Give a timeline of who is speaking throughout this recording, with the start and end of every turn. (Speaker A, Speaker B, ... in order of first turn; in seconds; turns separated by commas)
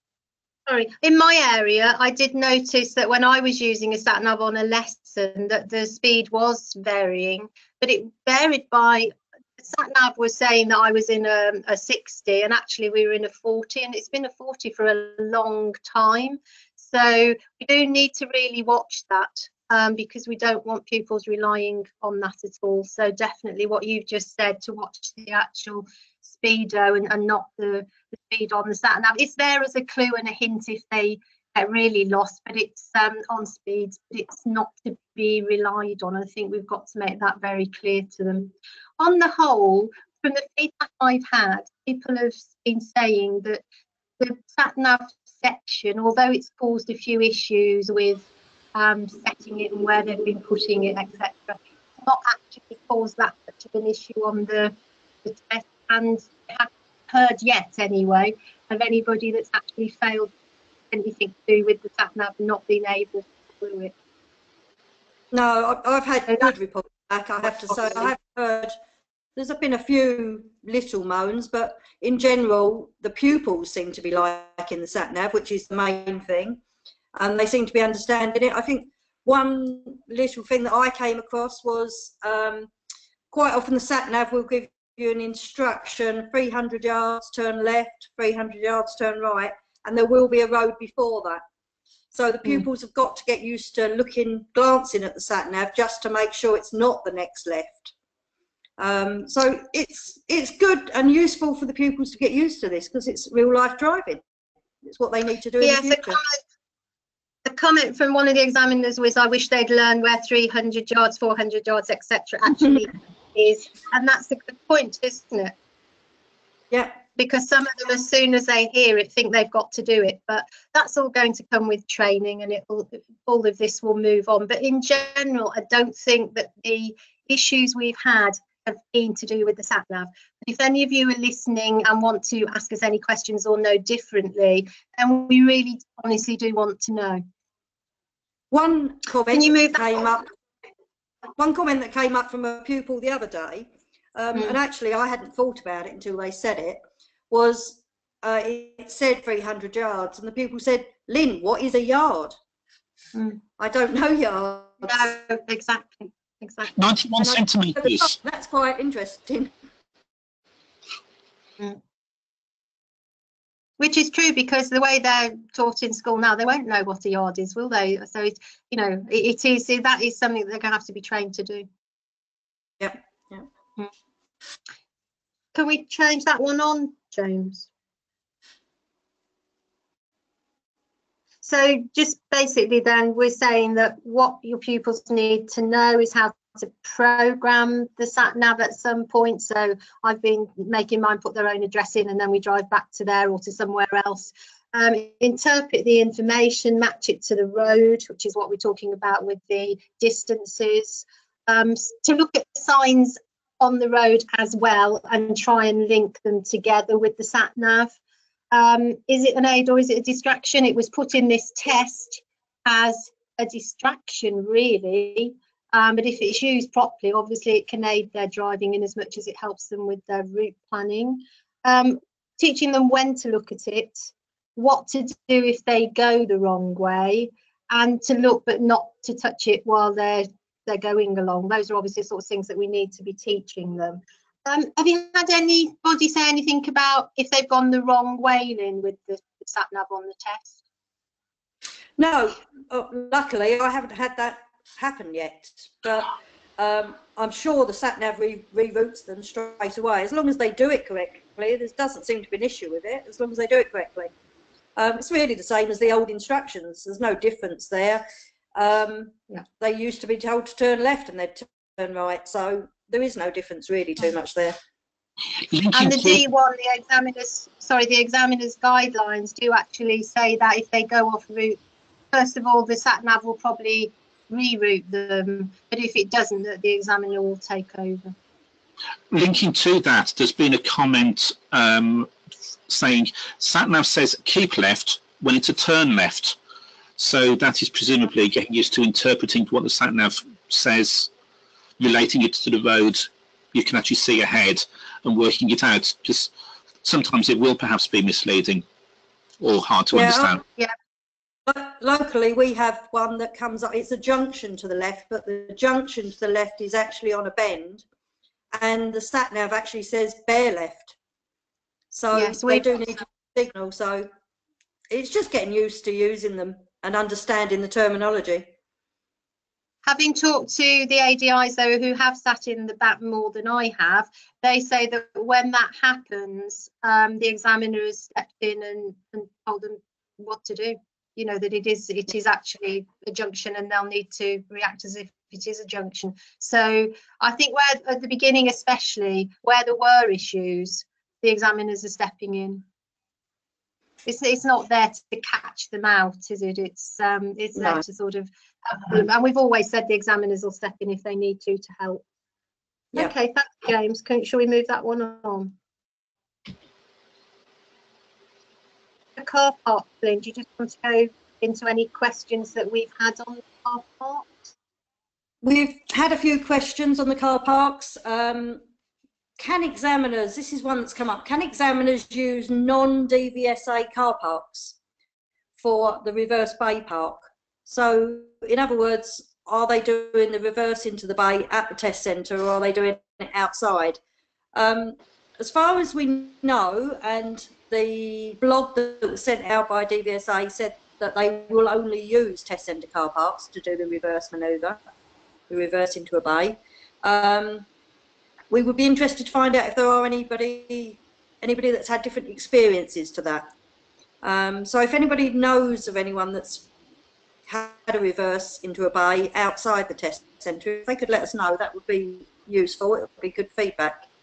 Speaker A: 0.7-43.6, Speaker A: 44.2-60.3, Speaker A: 60.9-63.9, Speaker B: 65.3-68.7, Speaker B: 69.4-76.6, Speaker B: 77.2-82.7, Speaker B: 83.3-91.4, Speaker B: 92.1-97.9, Speaker B: 98.8-104.2, Speaker B: 104.8-106.2, Speaker A: 105.6-106.4, Speaker A: 107.5-115.5, Speaker B: 116.7-117.0, Speaker A: 117.2-137.2, Speaker B: 138.5-140.3, Speaker A: 139.3-140.1, Speaker B: 141.4-152.4, Speaker B: 153.6-155.1, Speaker A: 154.8-156.7, Speaker C: 156.8-158.2, Speaker B: 157.2-159.5, Speaker A: 163.8-171.7, Speaker B: 172.8-173.4, Speaker A: 175.5-177.7, Speaker A: 181.4-207.9, Speaker A: 208.5-240.6, Speaker B: 242.0-254.1, Speaker B: 254.8-258.0, Speaker B: 258.6-264.6, Speaker C: 265.5-266.2, Speaker A: 265.7-271.6, Speaker A: 272.1-278.1, Speaker C: 279.1-282.1, Speaker C: 282.7-286.4, Speaker C: 287.0-291.1, Speaker C: 291.8-296.3, Speaker C: 296.8-298.6, Speaker C: 299.4-300.4, Speaker B: 299.9-300.4, Speaker B: 301.5-307.8, Speaker B: 308.5-311.0, Speaker B: 311.9-314.1, Speaker A: 312.1-312.7, Speaker B: 314.9-318.5, Speaker A: 319.9-342.6, Speaker A: 344.1-352.0, Speaker B: 347.6-347.8, Speaker A: 352.9-355.5, Speaker A: 359.2-364.4, Speaker B: 365.4-368.6, Speaker B: 369.4-374.8, Speaker B: 375.6-384.0, Speaker B: 384.6-394.8, Speaker B: 395.5-397.7, Speaker B: 398.5-403.5, Speaker B: 404.2-406.7, Speaker B: 407.5-414.1